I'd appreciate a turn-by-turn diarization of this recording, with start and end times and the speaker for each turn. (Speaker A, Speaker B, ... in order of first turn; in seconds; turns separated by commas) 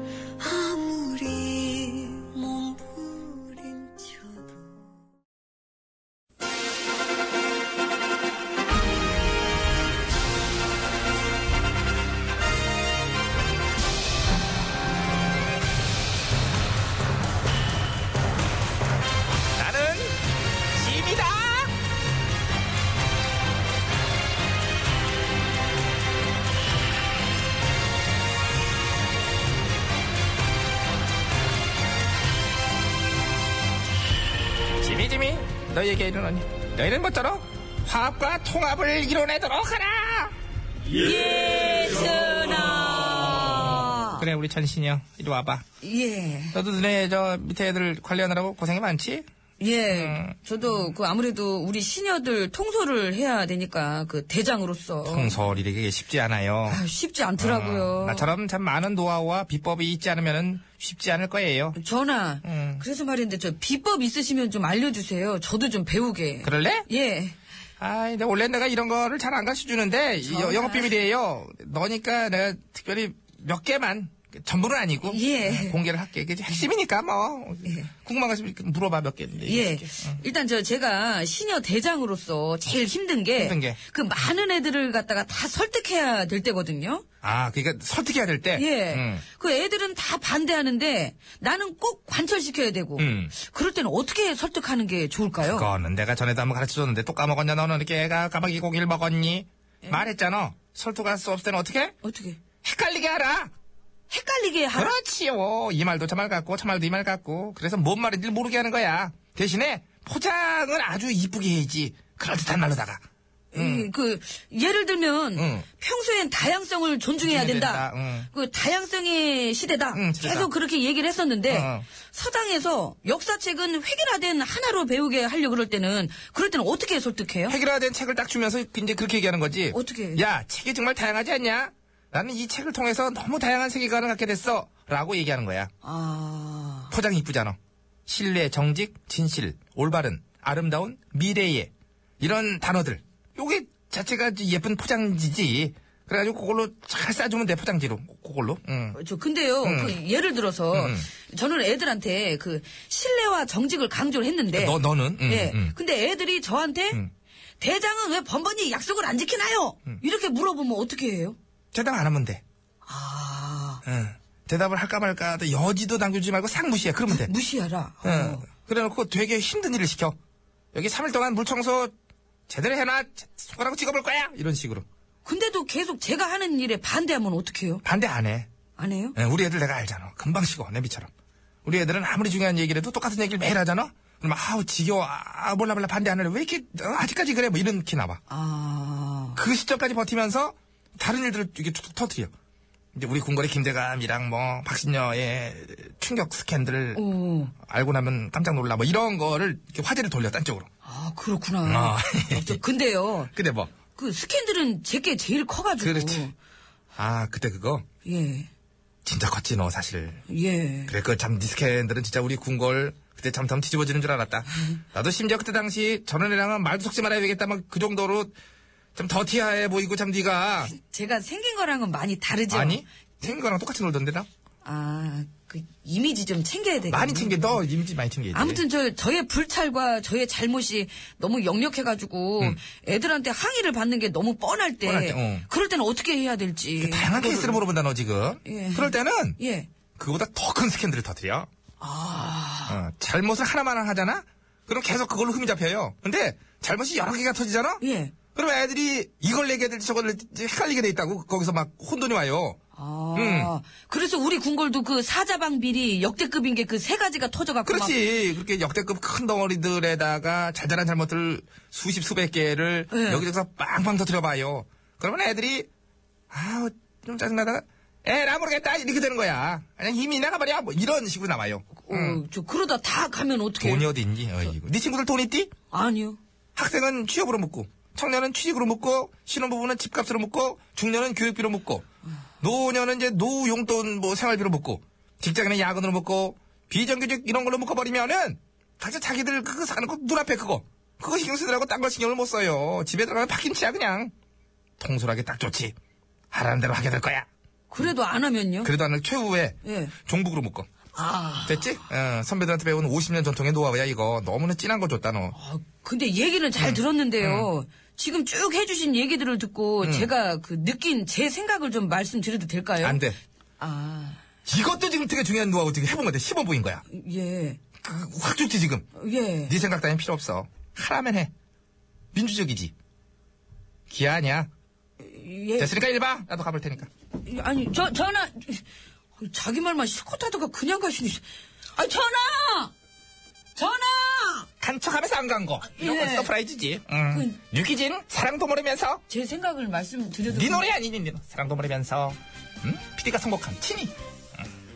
Speaker A: 0.4-4.2, Speaker B: 19.6-20.2, Speaker B: 20.7-21.7, Speaker B: 34.8-40.3, Speaker C: 40.9-44.2, Speaker B: 43.6-45.6, Speaker C: 45.8-46.6, Speaker B: 46.5-49.2, Speaker C: 49.6-55.4, Speaker B: 49.9-50.3, Speaker B: 55.0-56.8, Speaker C: 56.7-58.3, Speaker B: 57.4-61.8, Speaker C: 61.8-67.4, Speaker B: 62.4-62.8, Speaker B: 66.4-66.9, Speaker B: 67.8-80.2, Speaker C: 70.2-71.0, Speaker C: 75.0-75.8, Speaker C: 79.4-87.0, Speaker B: 83.4-83.8, Speaker B: 87.2-89.2, Speaker C: 88.5-95.7, Speaker B: 93.0-93.3, Speaker B: 95.4-101.9, Speaker C: 102.0-102.4, Speaker B: 102.6-103.5, Speaker C: 104.1-104.9, Speaker B: 104.8-113.0, Speaker C: 113.5-127.5, Speaker B: 113.5-113.9, Speaker B: 115.4-115.7, Speaker B: 117.2-118.3, Speaker B: 119.9-120.5, Speaker B: 121.5-121.9, Speaker B: 127.5-135.7, Speaker C: 129.7-130.2, Speaker C: 135.8-136.9, Speaker B: 136.9-149.0, Speaker C: 148.9-157.0, Speaker B: 149.6-150.0, Speaker B: 150.7-151.1, Speaker B: 154.5-155.7, Speaker C: 157.6-161.4, Speaker B: 161.7-162.4, Speaker C: 162.8-163.8, Speaker B: 163.8-167.3, Speaker C: 167.1-168.5, Speaker B: 168.0-170.2, Speaker B: 170.7-171.9, Speaker B: 172.5-174.8, Speaker C: 175.2-177.8, Speaker B: 177.8-178.5, Speaker C: 178.8-179.2, Speaker B: 179.2-181.1, Speaker B: 181.6-188.2, Speaker C: 188.3-189.4, Speaker B: 189.4-192.3, Speaker B: 192.9-197.0, Speaker C: 196.9-197.5, Speaker B: 197.6-200.7, Speaker C: 200.8-203.3, Speaker B: 201.6-202.6, Speaker B: 203.3-203.7, Speaker C: 203.9-206.3, Speaker B: 205.8-206.3, Speaker B: 206.9-207.8, Speaker C: 208.0-208.5, Speaker B: 209.0-210.2, Speaker C: 210.3-210.9, Speaker B: 210.9-218.4, Speaker B: 218.9-220.7, Speaker C: 220.7-222.8, Speaker B: 222.5-224.3, Speaker C: 224.6-227.6, Speaker B: 226.9-228.6, Speaker C: 228.3-237.6, Speaker B: 234.8-235.5, Speaker B: 236.8-239.4, Speaker C: 238.4-239.7, Speaker B: 240.0-241.5, Speaker C: 241.8-242.8, Speaker B: 242.7-247.8, Speaker C: 247.8-248.1, Speaker B: 248.3-252.6, Speaker C: 252.8-258.0, Speaker B: 253.1-253.5, Speaker B: 257.6-265.7, Speaker C: 262.9-263.3, Speaker B: 266.3-272.2, Speaker C: 271.8-273.9, Speaker B: 273.6-275.5, Speaker C: 275.7-276.2, Speaker B: 276.6-281.8, Speaker B: 282.4-294.1, Speaker B: 294.8-295.7, Speaker B: 296.3-297.2, Speaker C: 297.7-298.7, Speaker B: 298.6-300.7, Speaker C: 299.6-299.9, Speaker C: 300.9-301.8, Speaker B: 301.4-305.4, Speaker C: 305.3-313.0, Speaker B: 306.6-307.5, Speaker B: 309.8-310.1, Speaker B: 312.8-313.2, Speaker C: 313.6-314.2, Speaker B: 314.4-316.8, Speaker C: 316.9-317.6, Speaker B: 317.8-318.9, Speaker C: 318.9-319.6, Speaker B: 319.4-321.3, Speaker B: 322.1-322.7, Speaker B: 323.9-324.5, Speaker C: 325.0-325.8, Speaker B: 325.6-326.9, Speaker C: 327.2-328.6, Speaker C: 329.2-332.7, Speaker C: 333.6-334.5, Speaker B: 334.6-339.0, Speaker C: 335.6-336.3, Speaker C: 337.1-337.4, Speaker C: 339.1-340.7, Speaker B: 340.3-343.9